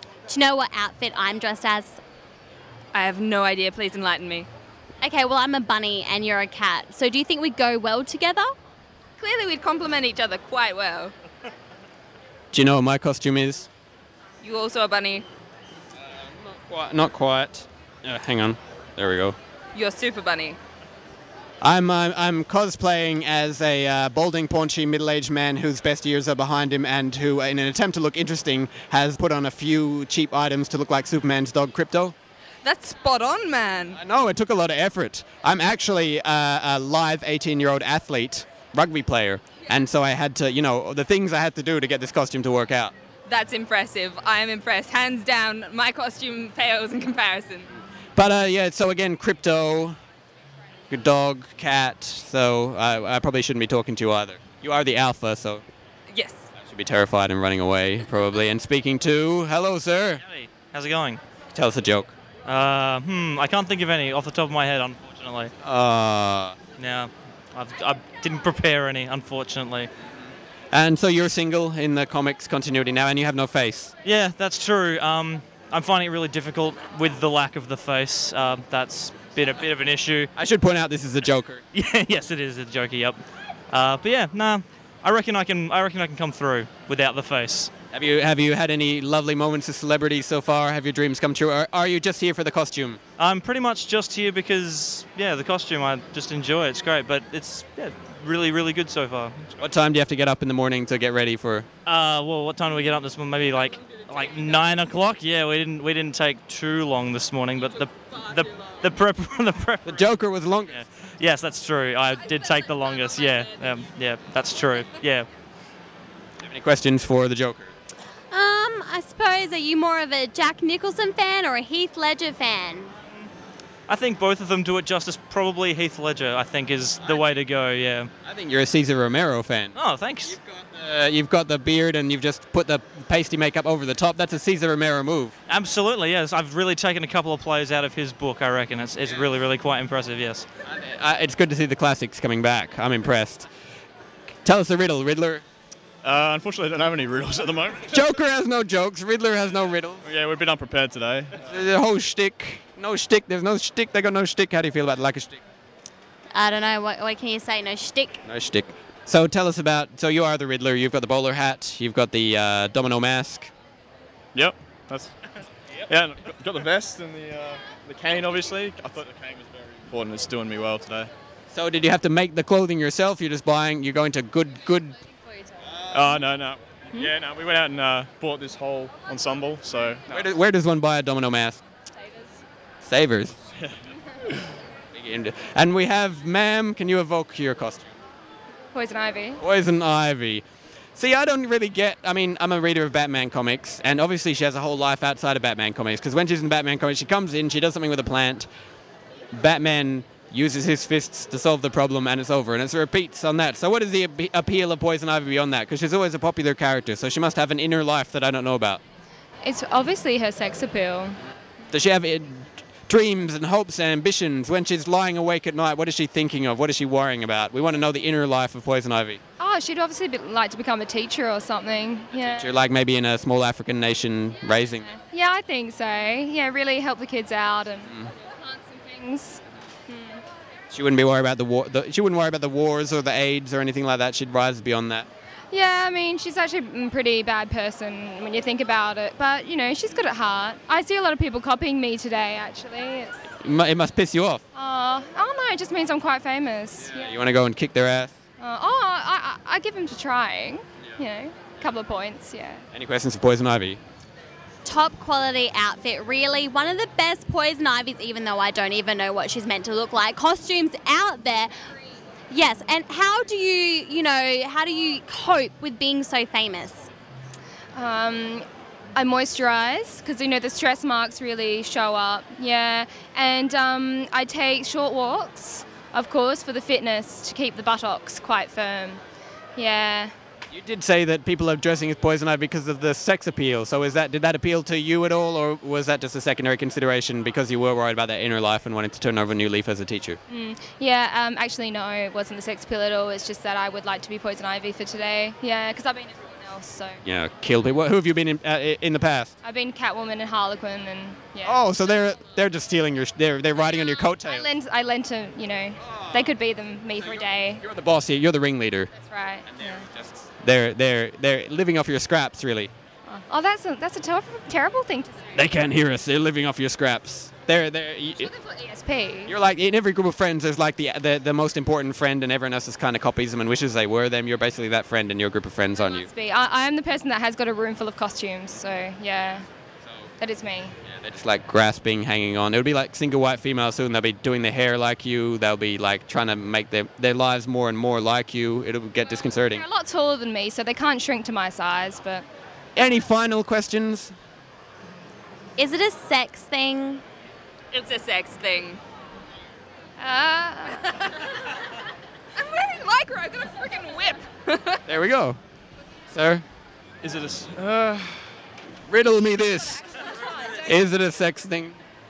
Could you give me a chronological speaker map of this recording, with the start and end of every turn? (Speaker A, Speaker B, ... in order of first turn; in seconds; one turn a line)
Speaker A: 0.3-2.0
Speaker B: 2.9-4.5
Speaker A: 5.0-8.5
Speaker B: 9.2-11.1
Speaker C: 12.5-13.7
Speaker B: 14.4-15.2
Speaker C: 16.5-19.4
Speaker B: 19.7-20.6
Speaker C: 21.6-32.1
Speaker B: 32.6-34.0
Speaker C: 33.9-42.9
Speaker B: 43.2-47.7
Speaker C: 48.1-50.0
Speaker C: 50.9-55.6
Speaker B: 56.1-56.5
Speaker C: 56.6-60.2
Speaker D: 60.2-61.2
Speaker C: 61.5-62.1
Speaker D: 62.4-65.5
Speaker C: 65.6-66.6
Speaker D: 66.8-69.9
Speaker C: 70.7-73.9
Speaker D: 74.0-80.3
Speaker C: 80.3-81.6
Speaker D: 81.7-87.7
Speaker C: 87.9-93.0
Speaker D: 93.2-99.5
Speaker C: 99.6-101.7
Speaker D: 101.8-110.0
Speaker C: 109.9-110.8
Speaker D: 110.7-115.3
Speaker C: 116.4-117.7
Speaker A: 118.3-122.9
Speaker D: 123.9-128.1
Speaker C: 128.2-129.7
Speaker D: 129.7-130.4
Speaker C: 130.5-135.3
Speaker D: 135.5-140.5
Speaker C: 140.7-143.5
Speaker C: 144.4-145.4
Speaker E: 146.0-147.9
Speaker C: 147.9-150.0
Speaker E: 150.0-151.3
Speaker C: 151.4-155.4
Speaker A: 156.3-158.2
Speaker C: 158.2-163.5
Speaker E: 164.3-165.1
Speaker E: 165.9-171.1
Speaker C: 171.5-174.9
Speaker E: 175.9-180.2
Speaker C: 180.1-181.6
Speaker C: 182.8-183.3
Speaker C: 184.9-187.9
Speaker F: 188.7-189.4
Speaker C: 189.4-190.4
Speaker C: 190.9-198.5
Speaker C: 199.3-208.8
Speaker F: 209.4-211.2
Speaker C: 211.7-219.2
Speaker F: 219.4-222.5
Speaker C: 222.2-225.0
Speaker F: 224.9-227.9
Speaker F: 228.5-230.2
Speaker C: 230.7-235.1
Speaker F: 235.5-243.2
Speaker C: 243.4-244.4
Speaker F: 244.5-247.2
Speaker C: 246.8-248.1
Speaker F: 248.4-252.6
Speaker C: 252.7-253.8
Speaker A: 254.6-261.5
Speaker A: 262.3-266.9
Speaker F: 267.7-279.0
Speaker F: 279.6-280.1
Speaker C: 280.5-290.2
Speaker F: 290.3-297.0
Speaker C: 297.0-299.3
Speaker F: 299.4-301.6
Speaker C: 301.4-304.5
Speaker F: 304.2-307.6
Speaker C: 305.8-306.3
Speaker C: 307.0-308.9
Speaker F: 309.0-309.9
Speaker C: 309.5-312.7
Speaker F: 313.1-315.5
Speaker C: 315.3-318.3
Speaker F: 318.4-319.3
Speaker C: 319.3-326.1
Speaker F: 325.8-329.4
Speaker F: 330.2-330.7
Speaker C: 330.8-339.6
Speaker F: 339.5-342.2
Speaker C: 342.8-344.1
Speaker A: 345.6-347.0
Speaker B: 347.7-348.8
Speaker F: 350.0-350.9
Speaker B: 352.4-354.8
Speaker C: 354.9-355.4
Speaker C: 356.1-356.4
Speaker E: 357.0-358.0
Speaker C: 358.9-359.8
Speaker C: 360.6-361.8